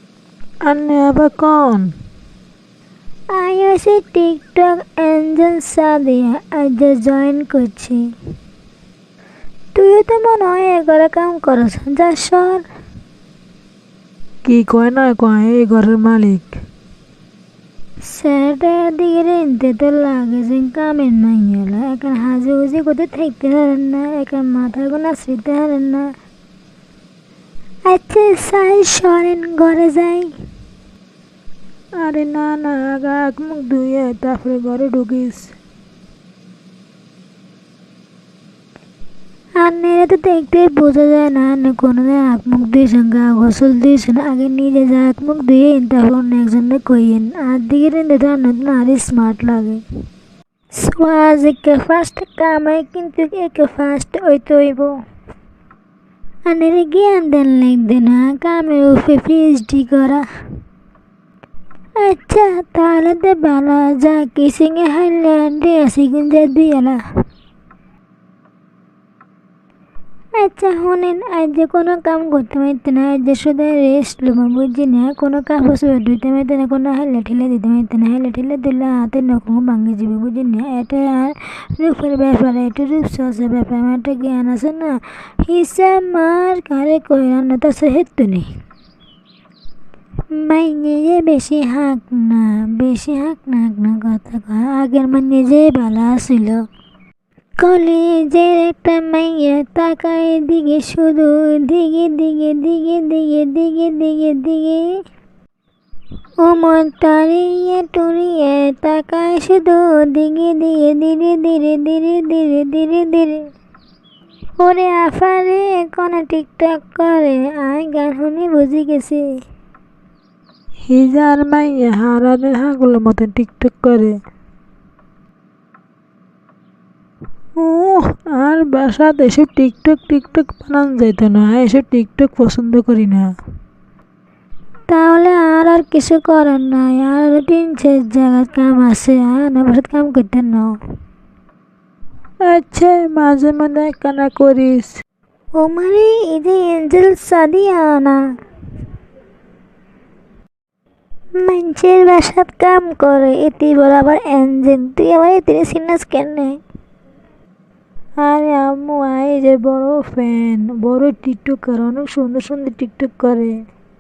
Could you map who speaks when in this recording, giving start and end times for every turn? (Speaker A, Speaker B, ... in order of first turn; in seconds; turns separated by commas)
Speaker A: 0.7-1.9, Speaker B: 3.3-8.1, Speaker B: 9.8-12.7, Speaker A: 14.5-16.6, Speaker B: 18.1-26.1, Speaker B: 27.9-30.4, Speaker A: 32.0-35.5, Speaker B: 39.6-49.8, Speaker B: 50.7-55.0, Speaker B: 56.5-60.2, Speaker B: 62.0-67.0, Speaker B: 70.4-88.5, Speaker B: 90.3-96.6, Speaker B: 97.6-104.9, Speaker B: 106.4-113.5, Speaker B: 114.6-119.4, Speaker A: 120.9-124.2, Speaker A: 127.6-133.3, Speaker B: 134.9-140.8, Speaker A: 142.5-145.0, Speaker B: 145.6-148.2, Speaker B: 151.4-156.6, Speaker A: 158.2-163.6